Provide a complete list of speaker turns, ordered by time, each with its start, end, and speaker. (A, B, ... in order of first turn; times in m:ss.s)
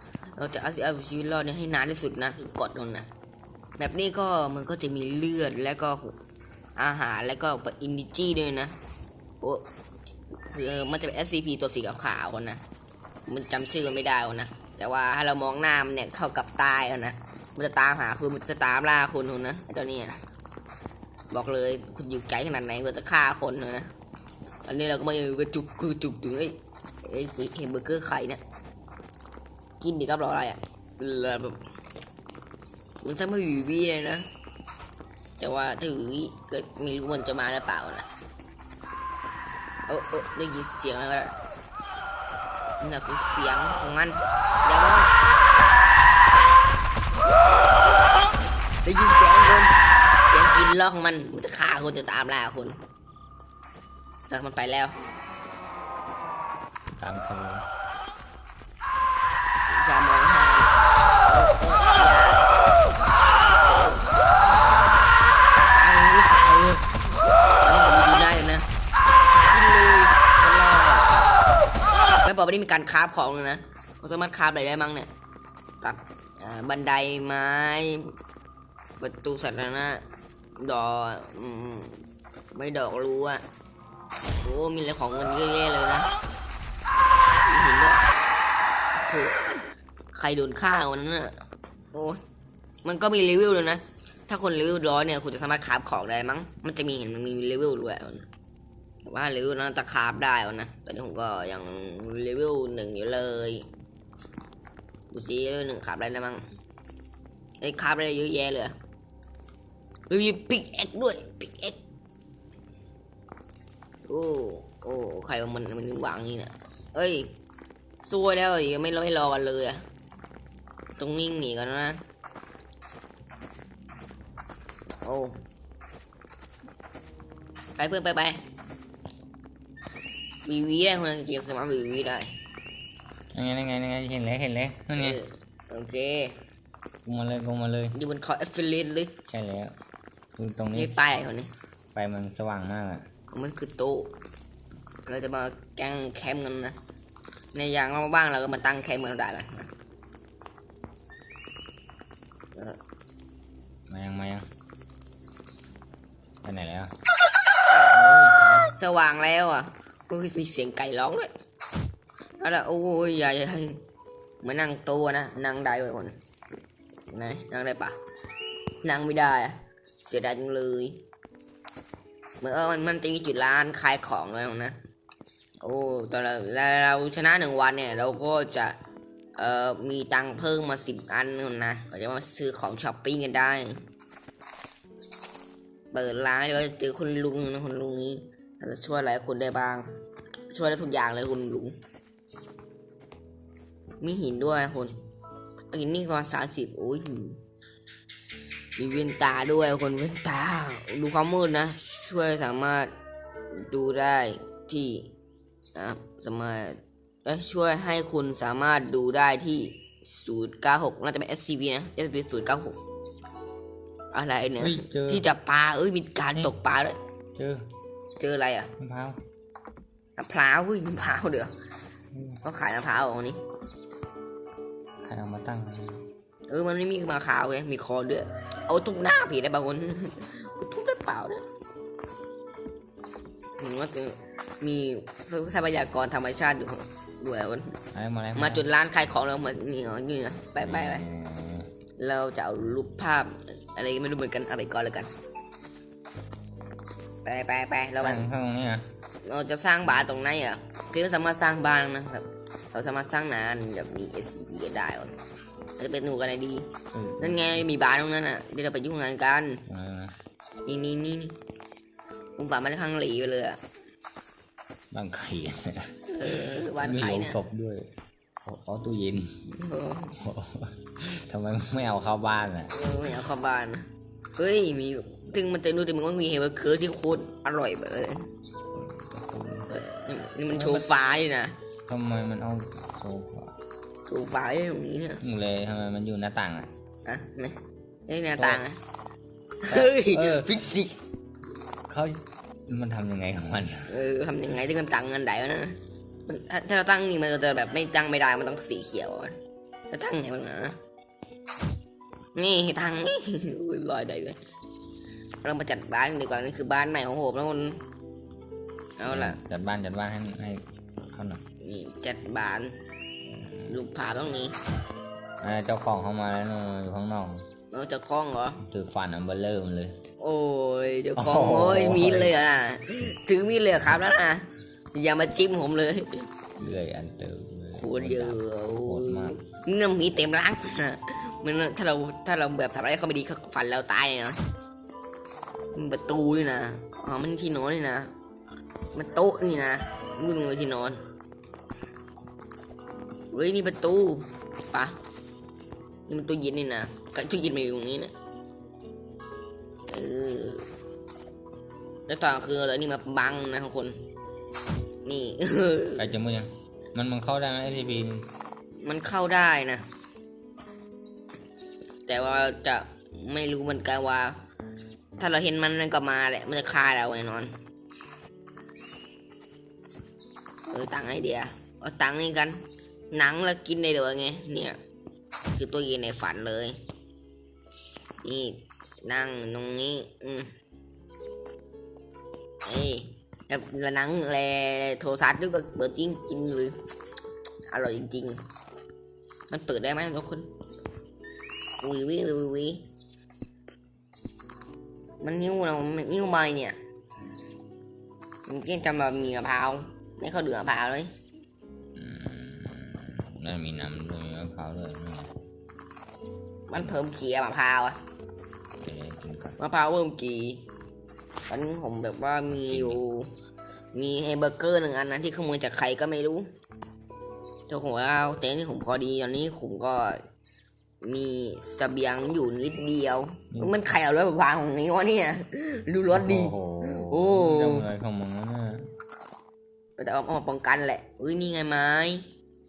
0:00.4-0:03.1 A
0:03.8-0:06.2 A
0:06.8-0:08.8 A
0:10.5-0:12.6 A
0:13.3-0:20.2 A
0:21.3-0:23.9 A
0:24.7-0:28.4 A
0:29.8-0:31.6 A
0:33.0-0:34.3 A
0:35.4-0:38.1 A
0:39.9-0:41.4 A
0:42.8-0:45.1 A
0:48.8-0:52.8 A
0:54.3-0:55.0 A
0:57.0-0:57.7 B
0:59.7-1:02.5 A
1:04.5-1:05.2 B
1:05.7-1:06.9 A
1:07.6-1:08.7 A
1:09.4-1:11.3 A
1:12.2-1:15.1 A
1:15.8-1:18.1 A
1:19.0-1:20.0 A
1:20.6-1:22.0 A
1:22.6-1:23.4 A
1:24.4-1:26.1 A
1:27.5-1:28.1 A
1:29.0-1:29.4 A
1:30.1-1:31.4 A
1:31.9-1:32.2 A
1:32.8-1:38.3 A
1:39.0-1:43.7 A
1:45.1-1:46.4 A
1:47.6-1:48.8 A
1:50.1-1:51.8 A
1:54.1-1:57.3 A
1:58.0-1:59.8 A
2:01.0-2:02.0 A
2:05.0-2:05.4 A
2:07.8-2:08.4 A
2:10.4-2:12.4 A
2:13.3-2:15.2 B
2:15.0-2:16.4 A
2:17.0-2:18.0 B
2:17.9-2:19.2 A
2:19.3-2:19.7 B
2:20.4-2:21.0 B
2:20.8-2:21.5 A
2:21.9-2:23.0 B
2:23.3-2:24.1 A
2:25.1-2:26.8 A
2:27.5-2:29.7 A
2:33.9-2:34.5 B
2:36.4-2:36.9 B
2:37.9-2:38.8 B
2:38.8-2:41.3 A
2:42.4-2:43.8 A
2:44.4-2:46.2 A
2:47.1-2:48.0 A
2:48.8-2:51.0 A
2:52.4-2:54.8 A
2:55.6-2:58.8 A
2:59.4-3:03.8 A
3:05.9-3:09.9 A
3:10.5-3:11.8 A
3:14.0-3:15.0 A
3:15.7-3:17.4 A
3:18.8-3:22.9 A
3:23.5-3:25.1 A
3:25.8-3:32.8 A
3:34.1-3:37.0 A
3:34.6-3:35.3 B
3:37.4-3:37.7 B
3:38.2-3:38.7 A
3:38.8-3:39.2 B
3:40.2-3:41.5 A
3:42.1-3:42.4 B
3:42.4-3:43.4 A
3:45.0-3:46.0 B
3:46.5-3:51.4 A
3:53.6-3:57.8 A
3:57.9-3:58.6 B
3:58.4-4:01.0 A
4:00.6-4:01.7 B
4:02.0-4:05.1 A
4:07.2-4:08.3 A
4:08.0-4:08.8 B
4:09.2-4:15.2 A
4:15.8-4:16.7 A
4:16.9-4:17.7 B
4:17.2-4:19.6 A
4:19.7-4:20.2 B
4:20.7-4:21.4 A
4:22.4-4:23.6 A
4:24.9-4:27.9 B
4:26.1-4:27.4 A
4:28.4-4:29.4 B
4:29.5-4:30.2 A
4:30.2-4:32.7 B
4:32.7-4:38.3 A
4:38.7-4:39.7 B
4:39.7-4:41.6 A
4:40.5-4:40.9 B
4:41.9-4:43.6 B
4:44.1-4:45.2 A
4:45.2-4:46.7 B
4:47.1-4:48.8 A
4:48.4-4:48.6 B
4:49.6-4:51.0 A
4:49.7-4:50.6 B
4:51.9-4:53.9 B
4:53.9-4:55.8 A
4:56.3-4:59.4 A
4:59.9-5:00.8 A
5:02.4-5:04.4 A
5:05.4-5:07.8 A
5:09.0-5:09.4 A
5:09.1-5:11.4 B
5:11.6-5:12.8 A
5:13.2-5:13.8 B
5:13.7-5:14.6 A
5:15.4-5:17.4 B
5:17.7-5:18.6 A
5:18.6-5:20.0 B
5:20.2-5:26.3 A
5:21.2-5:22.4 B
5:26.6-5:29.4 B
5:27.8-5:34.4 A
5:35.7-5:38.1 A
5:39.0-5:41.0 A
5:43.3-5:45.0 A
5:46.1-5:48.1 A
5:49.9-5:50.7 A
5:52.1-5:54.0 A
5:55.1-5:56.1 A
5:56.0-5:58.3 B
5:58.8-5:59.8 A
6:02.1-6:04.4 A
6:05.2-6:07.5 A
6:10.7-6:12.6 A
6:13.1-6:14.8 A
6:15.5-6:16.8 A
6:18.2-6:20.5 A
6:22.6-6:26.8 A
6:27.7-6:28.4 A
6:29.5-6:30.5 A
6:31.8-6:32.8 A
6:35.2-6:36.8 A
6:38.5-6:41.1 A
6:42.0-6:45.3 B
6:46.7-6:48.0 A
6:48.8-6:49.6 B
6:49.6-6:50.6 A
6:51.5-6:53.3 A
6:52.5-6:53.0 B
6:54.0-6:56.5 A
6:57.7-7:00.2 A
7:01.0-7:07.9 A
7:03.5-7:03.8 B
7:06.1-7:08.9 B
7:10.0-7:12.3 A